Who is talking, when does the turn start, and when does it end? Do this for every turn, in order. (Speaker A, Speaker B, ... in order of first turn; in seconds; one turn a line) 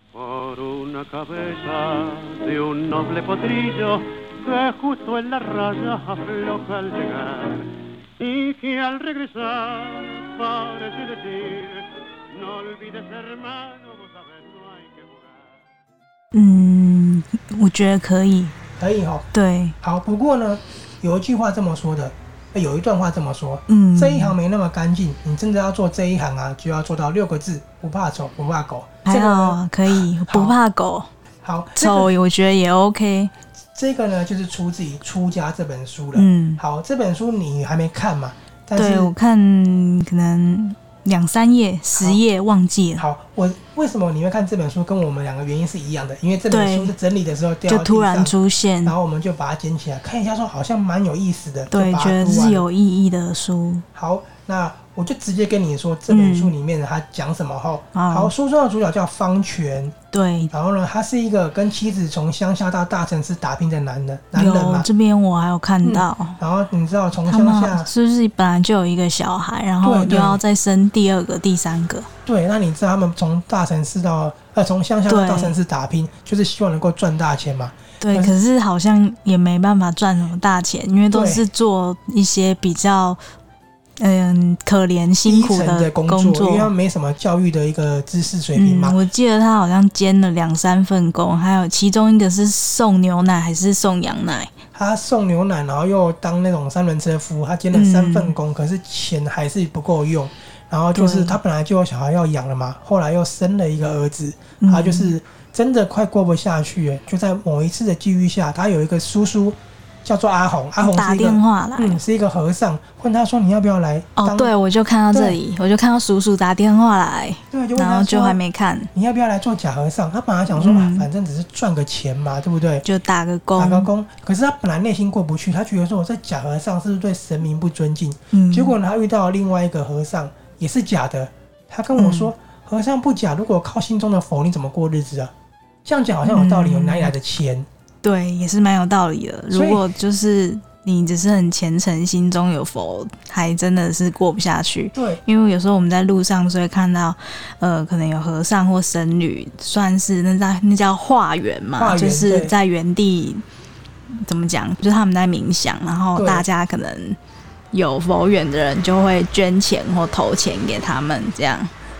Speaker A: 1.2-7.3
Speaker A: 8.4-10.1
Speaker A: 11.1-11.7
Speaker A: 12.5-14.0
Speaker B: 16.3-18.6
Speaker C: 18.8-19.3
Speaker B: 19.3-19.8
Speaker C: 19.8-30.6
Speaker B: 23.7-24.4
Speaker B: 29.1-31.1
Speaker C: 31.4-32.1
Speaker B: 31.8-33.3
Speaker C: 33.7-39.1
Speaker B: 36.1-36.6
Speaker B: 38.8-43.0
Speaker C: 41.9-42.2
Speaker C: 43.0-48.3
Speaker B: 46.5-46.9
Speaker B: 47.7-48.9
Speaker C: 48.8-52.6
Speaker B: 51.7-53.8
Speaker C: 53.9-59.9
Speaker B: 56.1-56.5
Speaker B: 57.9-58.3
Speaker B: 60.1-60.5
Speaker C: 60.5-64.9
Speaker B: 64.3-66.4
Speaker C: 65.8-67.9
Speaker B: 67.3-72.1
Speaker C: 69.8-70.4
Speaker C: 72.2-78.3
Speaker B: 75.1-75.5
Speaker B: 78.0-83.2
Speaker C: 81.1-81.4
Speaker B: 84.0-86.7
Speaker C: 85.2-89.0
Speaker B: 88.5-94.5
Speaker C: 94.7-114.5
Speaker B: 97.7-98.3
Speaker B: 100.9-101.4
Speaker B: 104.6-105.1
Speaker B: 110.8-112.0
Speaker B: 114.2-118.9
Speaker C: 115.1-115.4
Speaker C: 117.5-118.4
Speaker C: 118.9-122.8
Speaker B: 120.5-121.1
Speaker B: 122.8-123.9
Speaker C: 123.6-135.3
Speaker B: 128.3-128.8
Speaker B: 131.9-132.3
Speaker C: 135.8-137.7
Speaker B: 136.2-137.1
Speaker B: 138.0-153.4
Speaker C: 139.5-139.8
Speaker C: 144.9-145.2
Speaker C: 151.8-152.5
Speaker B: 154.1-157.2
Speaker C: 156.1-156.4
Speaker B: 157.7-161.7